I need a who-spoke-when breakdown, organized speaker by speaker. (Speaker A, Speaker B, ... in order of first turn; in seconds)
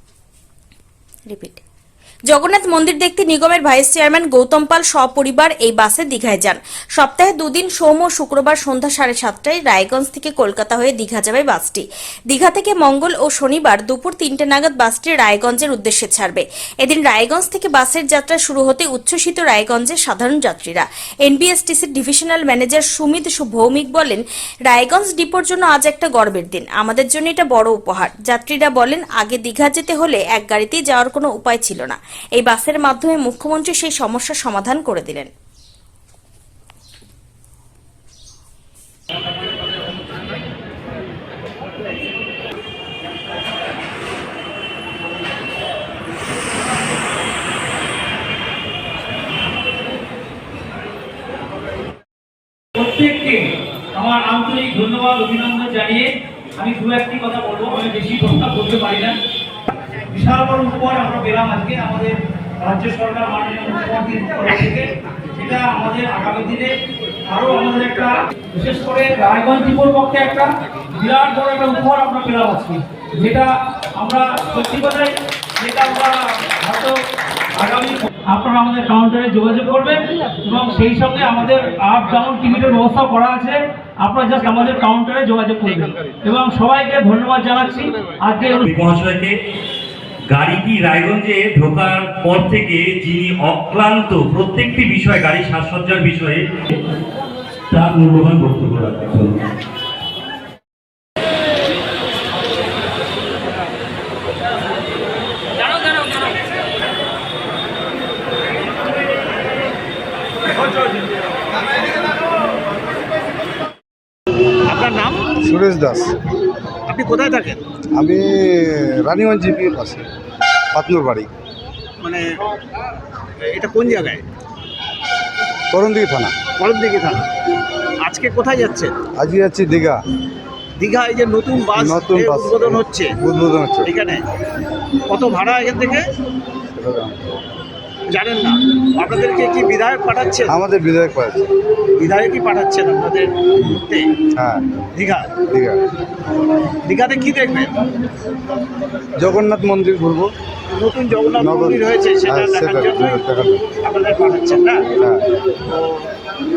Speaker A: 1.3-1.6, 2.3-35.3
Speaker B: 52.8-59.2, 60.1-66.7, 67.3-77.0, 77.6-88.7
Speaker C: 88.5-89.4, 90.3-96.4, 97.7-99.3
Speaker D: 114.7-115.3, 116.9-117.6, 123.5-124.2, 126.6-127.3, 128.0-128.9, 130.8-133.0, 133.9-134.2, 135.1-136.0, 138.1-140.4, 142.0-143.3, 145.0-145.3, 146.9-147.7, 150.8-153.1, 153.8-154.8, 155.7-156.0
Speaker E: 115.4-116.1, 118.0-120.0, 120.7-121.3, 125.7-126.4, 129.2-130.0, 131.8-133.9, 136.8-137.4, 140.5-141.5, 144.4-144.7, 145.5-145.8, 149.2-150.3, 151.4-153.6